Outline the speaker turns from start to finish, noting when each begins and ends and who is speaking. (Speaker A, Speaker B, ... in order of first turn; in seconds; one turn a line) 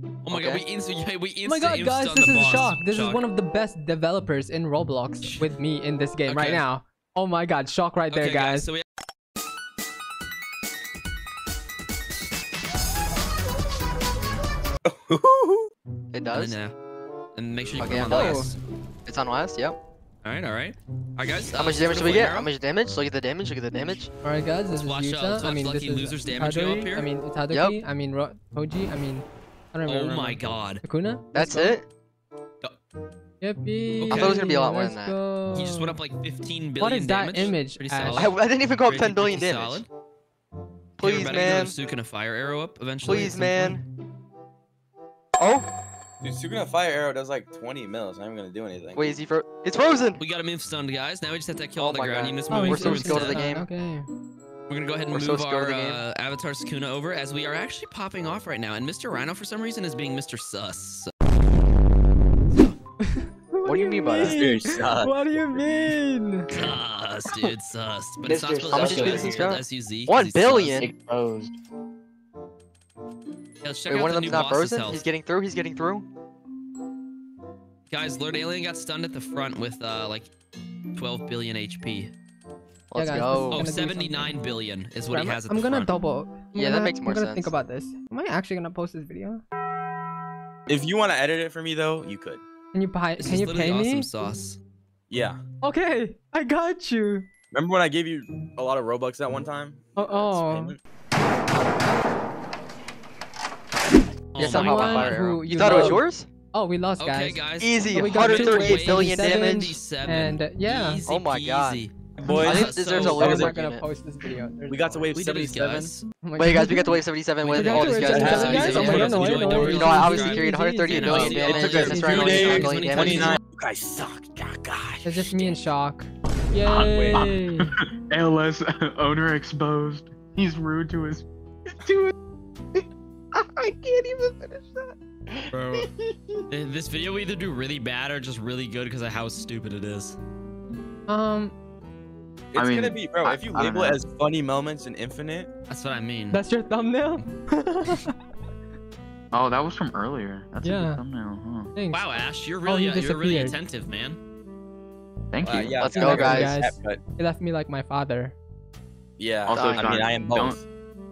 Speaker A: 0.2-3.2
Speaker B: 0.3-0.6
Speaker C: 1.4-8.7
Speaker A: 5.2-5.5
Speaker A: 6.2-6.6
Speaker A: 8.1-8.8
Speaker D: 14.8-15.7
Speaker B: 16.1-16.6
Speaker A: 16.3-16.7
Speaker A: 17.3-18.6
Speaker D: 17.6-18.3
Speaker B: 17.8-18.5
Speaker C: 18.1-18.5
Speaker B: 19.1-19.8
Speaker A: 20.2-22.5
Speaker B: 21.6-24.1
Speaker C: 24.2-31.8
Speaker A: 24.7-27.1
Speaker B: 27.5-27.8
Speaker A: 29.9-30.8
Speaker B: 31.3-31.9
Speaker C: 33.4-36.0
Speaker A: 34.0-34.4
Speaker B: 34.1-35.1
Speaker A: 35.5-39.9
Speaker C: 36.8-38.3
Speaker B: 38.1-39.8
Speaker B: 41.0-41.8
Speaker A: 41.0-43.8
Speaker B: 43.0-43.8
Speaker B: 45.4-45.7
Speaker D: 46.2-49.1
Speaker B: 48.9-50.2
Speaker A: 50.2-53.4
Speaker B: 51.7-53.7
Speaker C: 52.5-54.1
Speaker A: 54.7-61.1
Speaker B: 55.1-56.0
Speaker A: 62.5-62.8
Speaker C: 63.0-66.5
Speaker B: 63.6-64.4
Speaker D: 64.2-65.6
Speaker A: 66.5-70.9
Speaker E: 68.2-69.6
Speaker B: 68.7-70.9
Speaker E: 70.8-71.5
Speaker A: 73.6-75.0
Speaker B: 73.9-76.1
Speaker A: 77.9-80.3
Speaker A: 80.9-82.1
Speaker B: 82.9-83.7
Speaker C: 82.9-84.4
Speaker A: 83.5-85.9
Speaker C: 85.0-89.4
Speaker B: 86.5-87.5
Speaker D: 90.7-92.4
Speaker C: 92.7-94.3
Speaker A: 93.2-94.6
Speaker D: 95.1-95.4
Speaker C: 95.6-97.3
Speaker D: 97.5-100.8
Speaker C: 100.0-100.8
Speaker A: 104.3-106.0
Speaker B: 104.4-106.3
Speaker C: 104.4-111.0
Speaker A: 107.0-113.4
Speaker B: 107.6-109.8
Speaker B: 111.1-111.9
Speaker D: 112.2-113.6
Speaker C: 112.3-115.1
Speaker B: 112.4-113.8
Speaker D: 114.7-115.9
Speaker A: 115.1-116.1
Speaker C: 116.2-117.0
Speaker B: 116.4-123.4
Speaker A: 117.4-123.4
Speaker C: 117.5-122.6
Speaker D: 117.6-119.5
Speaker D: 121.2-125.5
Speaker C: 125.0-127.7
Speaker E: 126.6-131.2
Speaker D: 126.7-127.2
Speaker E: 131.8-132.1
Speaker E: 133.3-136.4
Speaker A: 135.5-135.9
Speaker A: 136.5-140.2
Speaker C: 141.1-141.5
Speaker D: 142.5-145.5
Speaker E: 142.5-144.0
Speaker A: 145.7-146.4
Speaker C: 146.3-148.1
Speaker E: 149.3-151.7
Speaker C: 150.6-151.0
Speaker C: 151.7-152.1
Speaker A: 151.9-154.2
Speaker C: 152.6-153.6
Speaker E: 155.3-155.9
Speaker D: 155.4-157.0
Speaker B: 155.8-156.6
Speaker C: 155.9-158.4
Speaker D: 159.2-160.6
Speaker E: 159.4-160.6
Speaker B: 159.5-159.9